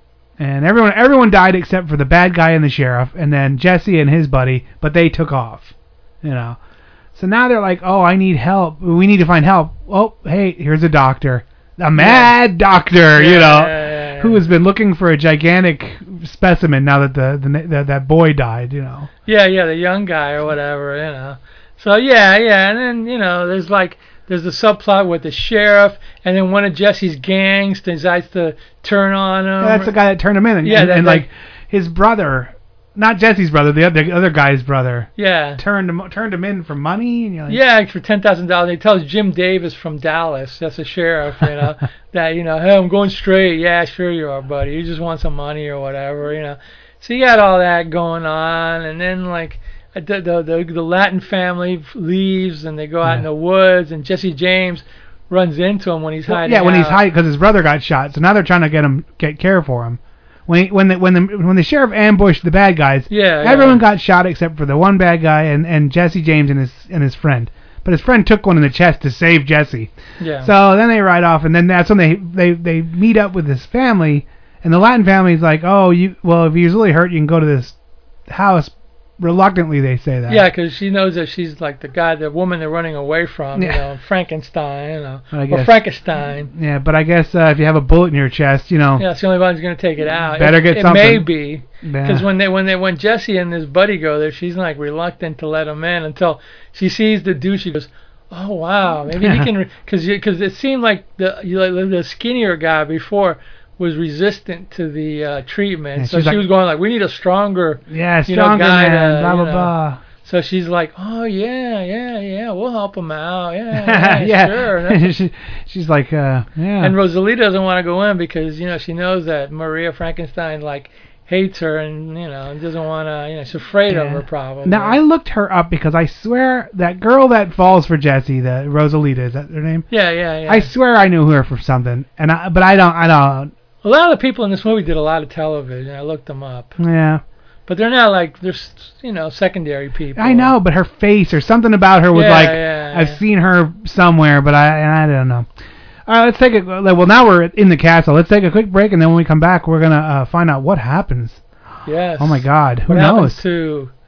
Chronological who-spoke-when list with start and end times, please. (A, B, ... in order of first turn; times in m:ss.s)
0:00.4-0:05.7 A
0:06.2-0:06.6 A
0:07.1-0:19.1 A
0:12.0-0:12.3 B
0:13.1-0:14.4 B
0:19.2-0:29.9 B
0:29.6-0:37.6 A
0:30.6-0:31.3 B
0:35.2-0:35.6 B
0:37.5-0:57.0 B
0:56.3-1:17.7 A
1:03.1-1:03.8 B
1:10.2-1:10.5 B
1:18.3-1:20.4 A
1:20.3-1:26.5 B
1:23.6-1:23.8 A
1:25.3-1:25.8 A
1:26.5-1:29.0 A
1:29.0-1:49.7 B
1:30.3-1:31.3 A
1:31.8-1:32.2 A
1:39.1-1:39.5 A
1:46.0-1:46.4 A
1:47.9-1:50.0 A
1:50.2-1:55.1 B
1:53.7-1:57.0 A
1:56.8-2:05.0 B
2:03.9-2:09.8 A
2:09.9-2:10.7 B
2:10.5-2:13.5 A
2:13.8-2:16.8 B
2:16.8-2:17.2 A
2:17.7-2:20.5 B
2:20.2-2:25.5 A
2:22.1-2:23.2 B
2:26.1-2:31.4 A
2:31.8-2:33.9 B
2:32.2-2:33.4 A